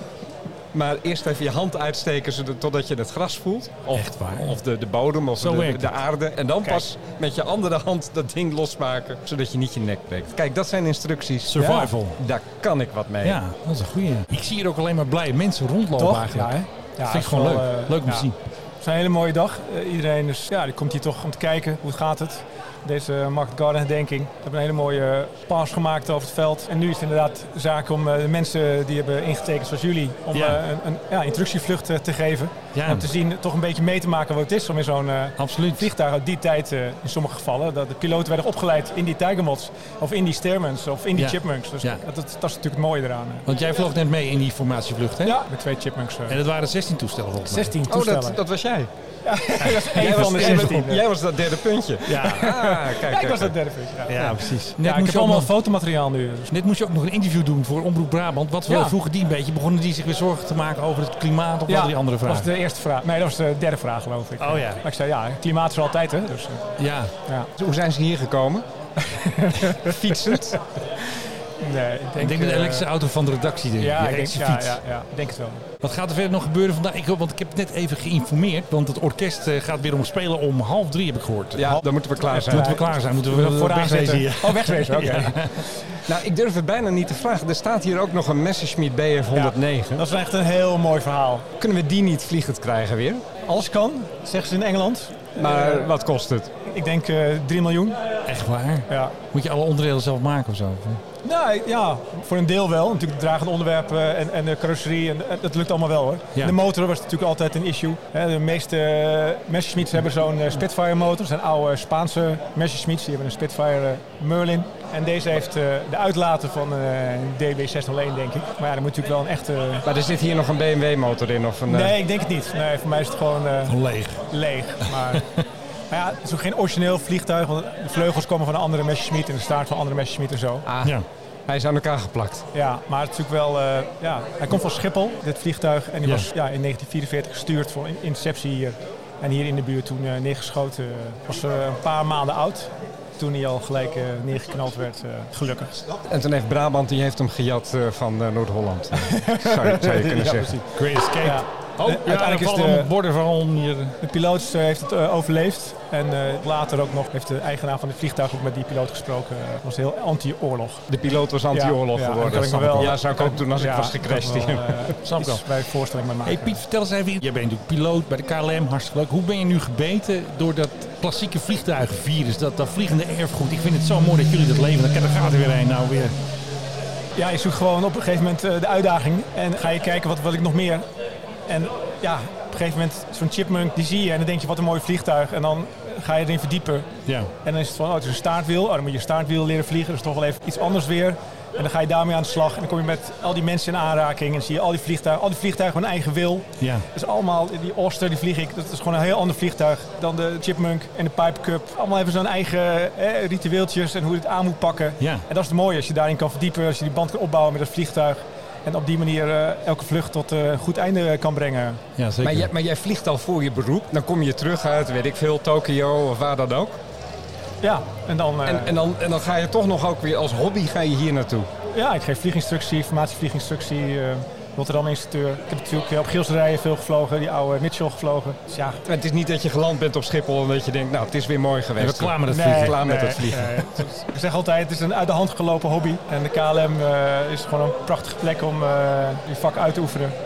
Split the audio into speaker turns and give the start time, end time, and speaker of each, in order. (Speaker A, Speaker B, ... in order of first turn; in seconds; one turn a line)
Speaker A: 0.7-13.4
Speaker B: 3.9-4.6
Speaker B: 5.4-6.0
Speaker B: 11.5-12.2
Speaker C: 11.6-11.9
Speaker B: 13.2-18.4
Speaker C: 15.9-18.3
Speaker C: 18.8-43.5
Speaker B: 30.3-30.6
Speaker B: 32.7-33.1
Speaker B: 35.4-35.9
Speaker B: 41.1-42.0
Speaker B: 43.5-45.4
Speaker C: 45.2-46.4
Speaker B: 46.3-47.8
Speaker C: 47.5-48.4
Speaker A: 47.9-48.9
Speaker C: 49.2-51.1
Speaker B: 49.6-50.8
Speaker A: 49.9-53.5
Speaker B: 52.0-52.5
Speaker C: 52.1-56.5
Speaker B: 54.1-55.5
Speaker B: 56.5-62.5
Speaker C: 58.7-59.0
Speaker C: 61.7-66.7
Speaker B: 64.4-64.8
Speaker B: 66.8-67.1
Speaker A: 67.6-68.7
Speaker C: 69.0-70.5
Speaker A: 69.8-70.6
Speaker C: 71.6-72.9
Speaker B: 72.2-74.8
Speaker C: 73.8-75.7
Speaker B: 75.8-85.7
Speaker A: 81.6-82.8
Speaker C: 81.7-85.7
Speaker A: 86.0-90.0
Speaker C: 89.3-91.5
Speaker A: 91.6-93.3
Speaker C: 93.4-95.9
Speaker A: 95.4-96.5
Speaker C: 96.6-98.2
Speaker B: 98.2-101.0
Speaker C: 98.9-99.2
Speaker C: 101.2-119.9
Speaker A: 119.9-122.0
Speaker C: 121.7-125.3
Speaker B: 123.7-124.3
Speaker C: 125.9-130.7
Speaker A: 130.7-132.5
Speaker C: 132.5-145.8
Speaker A: 146.1-150.6
Speaker C: 149.0-150.6
Speaker B: 150.4-154.0
Speaker C: 151.2-152.9
Speaker C: 154.0-160.8
Speaker A: 160.9-164.9
Speaker C: 161.5-166.6
Speaker B: 165.1-165.4
Speaker B: 166.2-176.1
Speaker C: 177.1-180.9
Speaker C: 181.5-186.9
Speaker B: 187.1-187.3
Speaker C: 187.4-211.8
Speaker B: 196.6-196.9
Speaker B: 205.0-205.2
Speaker B: 212.0-212.5
Speaker A: 212.2-216.8
Speaker C: 217.6-218.8
Speaker A: 218.4-221.5
Speaker C: 221.7-228.8
Speaker A: 228.8-233.7
Speaker B: 231.8-232.8
Speaker C: 232.3-240.2